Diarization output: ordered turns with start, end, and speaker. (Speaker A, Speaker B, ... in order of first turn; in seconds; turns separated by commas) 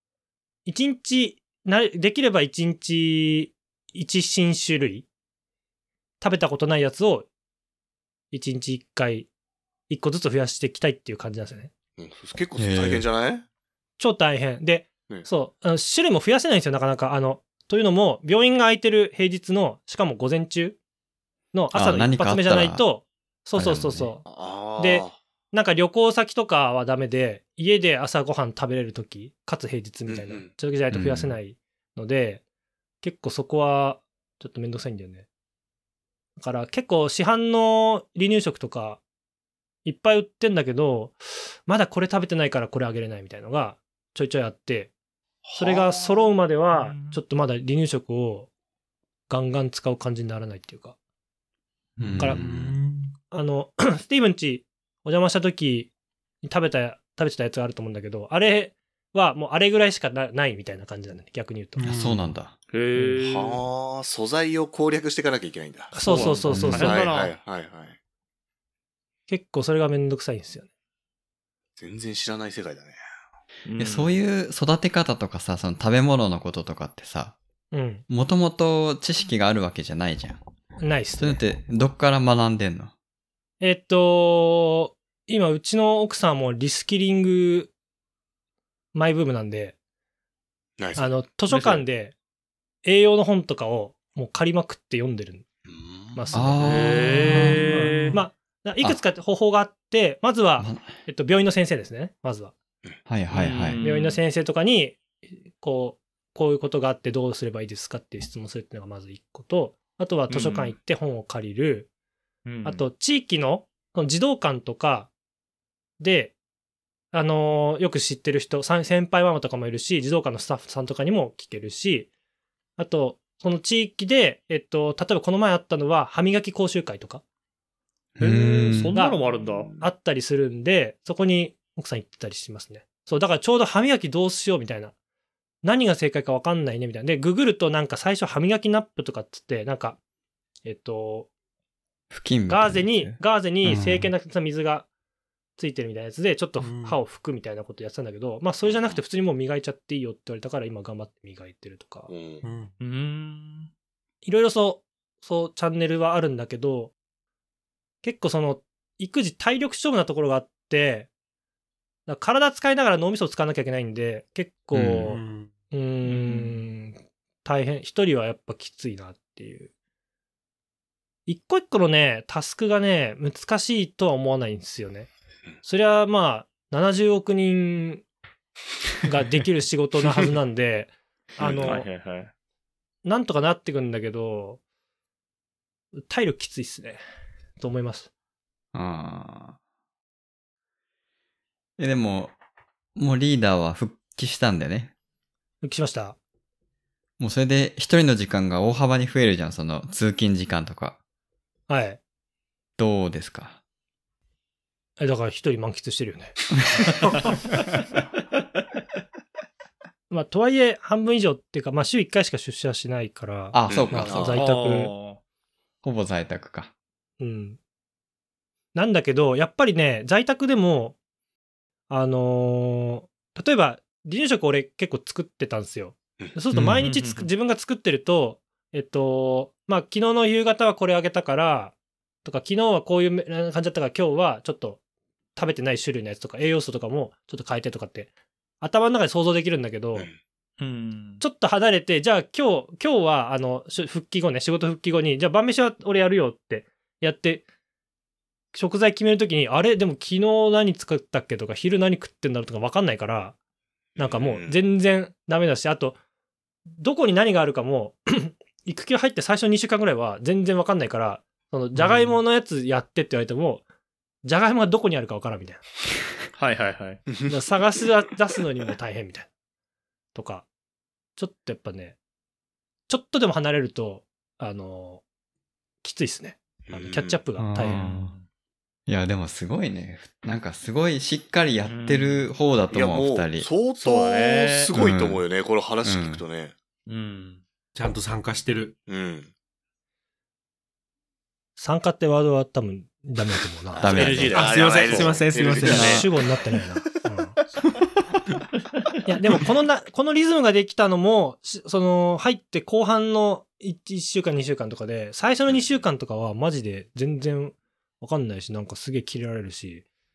Speaker A: 0.7-5.1, Speaker A: 6.2-7.3, Speaker A: 8.3-9.3, Speaker A: 9.9-11.7, Speaker B: 12.0-13.4, Speaker C: 12.6-13.1, Speaker A: 14.0-20.8, Speaker A: 21.5-24.2, Speaker C: 21.7-22.9, Speaker C: 23.6-24.1, Speaker B: 24.2-25.2, Speaker A: 24.8-32.4, Speaker B: 30.1-30.5, Speaker C: 30.9-31.4, Speaker A: 33.0-35.2, Speaker A: 36.4-39.0, Speaker A: 39.9-44.9, Speaker B: 45.4-46.2, Speaker A: 45.6-48.5, Speaker D: 46.7-47.2, Speaker A: 49.3-51.0, Speaker C: 52.0-52.6, Speaker E: 52.0-53.1, Speaker B: 52.4-52.7, Speaker A: 53.3-55.9, Speaker A: 56.4-61.9, Speaker E: 61.8-62.3, Speaker C: 61.8-62.6, Speaker D: 62.7-63.6, Speaker B: 63.2-68.0, Speaker A: 65.9-67.1, Speaker D: 66.0-67.3, Speaker C: 66.5-66.9, Speaker A: 69.3-70.7, Speaker B: 71.8-73.0, Speaker D: 73.7-74.1, Speaker C: 73.8-77.4, Speaker A: 77.7-78.0, Speaker C: 78.1-80.4, Speaker A: 80.8-81.4, Speaker C: 81.2-82.9, Speaker A: 83.6-87.7, Speaker A: 88.9-89.8, Speaker B: 90.8-91.1, Speaker A: 91.0-92.1, Speaker D: 91.5-91.8, Speaker A: 92.8-95.5, Speaker B: 95.7-96.3, Speaker A: 96.1-102.5, Speaker C: 96.3-97.7, Speaker D: 96.6-98.1, Speaker C: 100.6-101.0, Speaker C: 103.1-103.8, Speaker D: 103.3-104.2, Speaker A: 103.8-111.9, Speaker D: 110.3-110.8, Speaker D: 112.5-112.8, Speaker A: 112.6-115.1, Speaker A: 116.0-116.3, Speaker A: 117.1-122.1, Speaker A: 122.8-127.2, Speaker C: 128.2-129.0, Speaker D: 128.2-129.7, Speaker A: 128.9-129.2, Speaker B: 129.3-129.9, Speaker A: 129.8-134.9, Speaker A: 135.6-140.0, Speaker A: 140.6-141.3, Speaker C: 142.1-144.1, Speaker A: 142.5-144.9, Speaker A: 145.6-152.1, Speaker E: 146.6-147.0, Speaker B: 148.6-149.0, Speaker B: 152.1-152.4, Speaker E: 152.4-152.7, Speaker D: 152.8-153.7, Speaker A: 154.2-156.9, Speaker A: 158.0-161.1, Speaker A: 162.1-169.7, Speaker C: 164.7-165.1, Speaker E: 165.0-165.5, Speaker E: 166.0-166.6, Speaker A: 171.2-175.1, Speaker A: 175.6-178.0, Speaker A: 179.0-181.9, Speaker B: 181.4-181.8, Speaker D: 181.6-182.3, Speaker A: 183.0-184.6, Speaker A: 186.0-187.0, Speaker A: 187.6-188.1, Speaker C: 188.7-189.6, Speaker C: 191.8-192.3, Speaker C: 192.9-194.9, Speaker A: 195.6-196.2, Speaker C: 197.2-200.9, Speaker A: 201.7-202.0, Speaker C: 202.8-203.6, Speaker A: 205.0-206.4, Speaker A: 210.1-214.9, Speaker C: 213.5-214.4, Speaker B: 213.7-214.4, Speaker D: 214.2-215.2, Speaker C: 215.8-216.7, Speaker A: 217.2-217.6, Speaker A: 218.7-220.9, Speaker A: 221.9-234.8, Speaker C: 226.5-226.8, Speaker D: 226.8-227.3, Speaker A: 235.4-238.1, Speaker A: 238.6-240.1, Speaker D: 240.6-241.2, Speaker A: 241.2-247.4, Speaker A: 248.5-253.4, Speaker B: 253.9-254.6, Speaker A: 254.0-256.0, Speaker A: 256.7-263.6, Speaker E: 261.8-262.1, Speaker A: 264.2-265.6, Speaker D: 266.3-267.0, Speaker A: 267.3-269.3, Speaker A: 270.1-270.4, Speaker A: 271.2-272.0, Speaker A: 272.9-275.0, Speaker A: 275.8-277.9, Speaker B: 276.7-277.2, Speaker C: 277.4-278.1, Speaker D: 277.6-278.2, Speaker C: 278.9-283.5, Speaker D: 281.7-282.3, Speaker B: 282.7-286.5, Speaker D: 283.8-284.7, Speaker C: 284.7-285.2, Speaker C: 285.8-286.2, Speaker D: 286.9-287.4, Speaker E: 287.7-288.8, Speaker B: 288.9-289.3, Speaker A: 291.6-294.0, Speaker B: 293.7-296.1, Speaker C: 293.8-294.4, Speaker D: 293.9-296.0, Speaker E: 294.3-296.1, Speaker C: 295.6-296.1, Speaker A: 295.8-297.4, Speaker A: 299.1-309.9, Speaker B: 305.5-305.8